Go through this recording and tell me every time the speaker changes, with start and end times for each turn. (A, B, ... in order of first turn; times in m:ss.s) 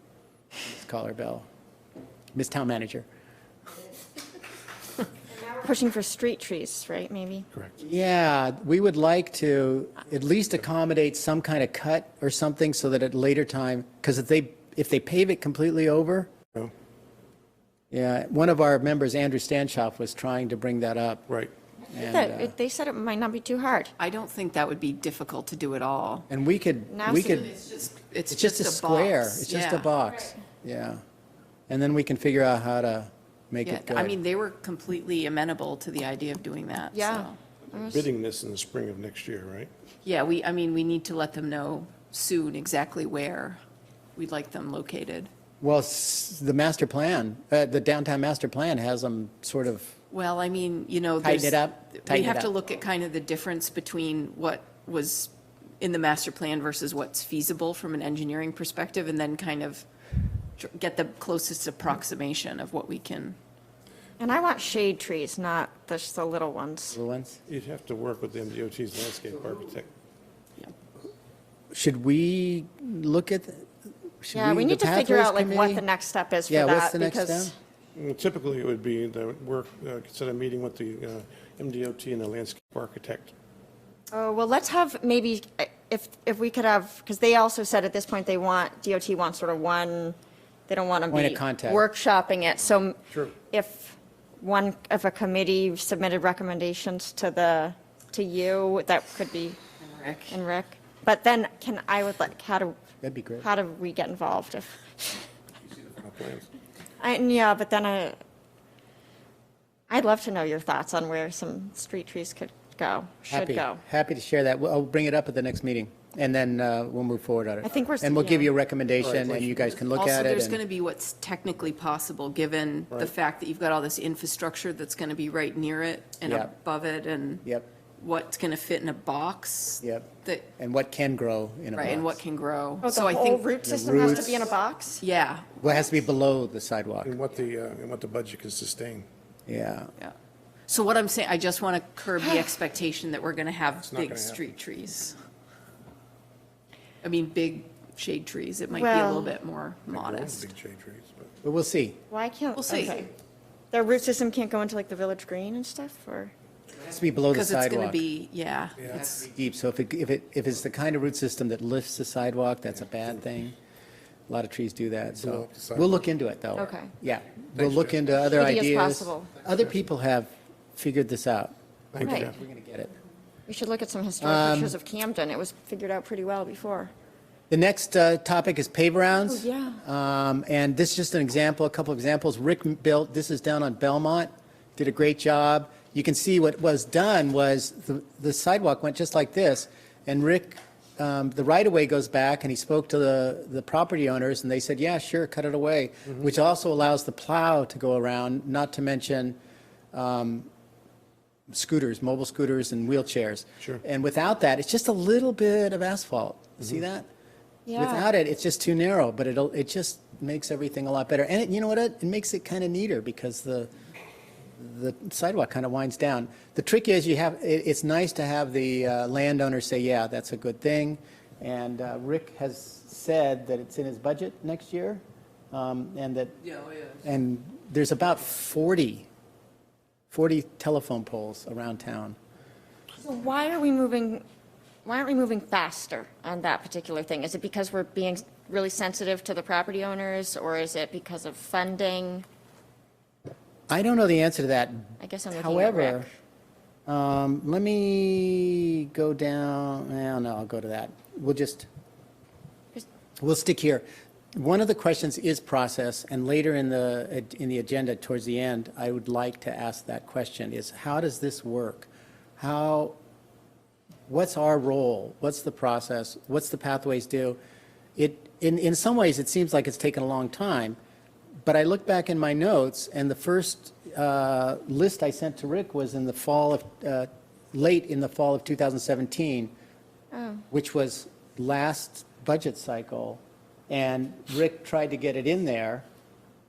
0:00.6-0:01.5 A
0:02.3-0:03.0 A
0:05.3-0:07.5 B
0:07.8-0:16.3 A
0:17.9-0:21.2 A
0:21.9-0:23.9 B
0:21.9-0:22.5 A
0:24.0-0:26.3 C
0:26.3-0:27.5 A
0:26.9-0:27.5 B
0:27.5-0:29.9 C
0:28.3-0:31.0 A
0:31.7-0:34.2 A
0:33.6-0:37.4 C
0:36.9-0:38.0 B
0:37.7-0:39.7 D
0:40.0-0:43.6 C
0:44.2-0:45.3 C
0:45.6-0:49.9 A
0:50.1-0:59.9 C
0:51.2-0:52.5 A
1:00.6-1:03.4 C
1:04.2-1:07.0 B
1:06.9-1:07.4 A
1:07.5-1:09.9 D
1:11.7-1:13.7 A
1:14.2-1:15.8 A
1:14.3-1:17.5 B
1:16.5-1:17.5 A
1:17.9-1:23.3 D
1:24.1-1:30.2 B
1:30.7-1:39.6 B
1:31.1-1:31.8 A
1:39.8-1:40.4 C
1:40.3-1:42.8 B
1:43.0-1:43.5 A
1:43.4-1:45.2 B
1:45.9-1:46.5 D
1:47.0-1:48.2 B
1:49.9-1:53.8 B
1:53.3-2:00.6 A
1:57.6-1:58.5 B
1:59.0-1:59.8 D
1:59.9-2:07.4 C
2:06.2-2:06.5 A
2:08.0-2:10.5 C
2:09.8-2:12.2 A
2:11.7-2:14.4 C
2:12.8-2:15.0 B
2:13.6-2:14.5 A
2:15.0-2:15.6 C
2:15.6-2:17.1 A
2:17.0-2:19.1 D
2:19.5-2:19.9 A
2:20.7-2:25.2 C
2:23.8-2:24.4 D
2:27.0-2:30.5 C
2:28.8-2:29.3 B
2:29.9-2:31.3 D
2:31.4-2:32.0 A
2:32.1-2:33.1 B
2:32.6-2:33.1 C
2:33.7-2:36.3 B
2:36.8-2:38.0 A
2:37.3-2:39.3 C
2:39.0-2:43.6 A
2:44.3-2:52.9 A
2:45.2-2:46.0 D
2:46.6-2:46.9 B
2:47.6-2:47.9 D
2:48.2-2:49.3 B
2:51.9-2:52.3 D
2:52.0-2:52.3 B
2:53.5-2:56.9 B
2:54.2-2:54.7 A
2:57.5-3:19.4 A
2:59.1-2:59.8 B
3:19.9-3:20.5 A
3:21.5-3:27.1 A
3:27.7-3:28.0 B
3:27.7-3:33.7 A
3:34.6-3:46.4 A
3:46.9-3:49.1 A
3:50.1-3:52.2 A
3:53.0-3:54.2 B
3:54.8-4:02.2 B
4:03.7-4:06.1 A
4:05.0-4:06.1 B
4:06.9-4:11.7 A
4:13.2-4:23.0 A
4:24.1-4:27.4 A
4:28.0-4:30.8 A
4:31.4-4:39.5 A
4:40.1-4:40.4 B
4:40.5-4:45.8 A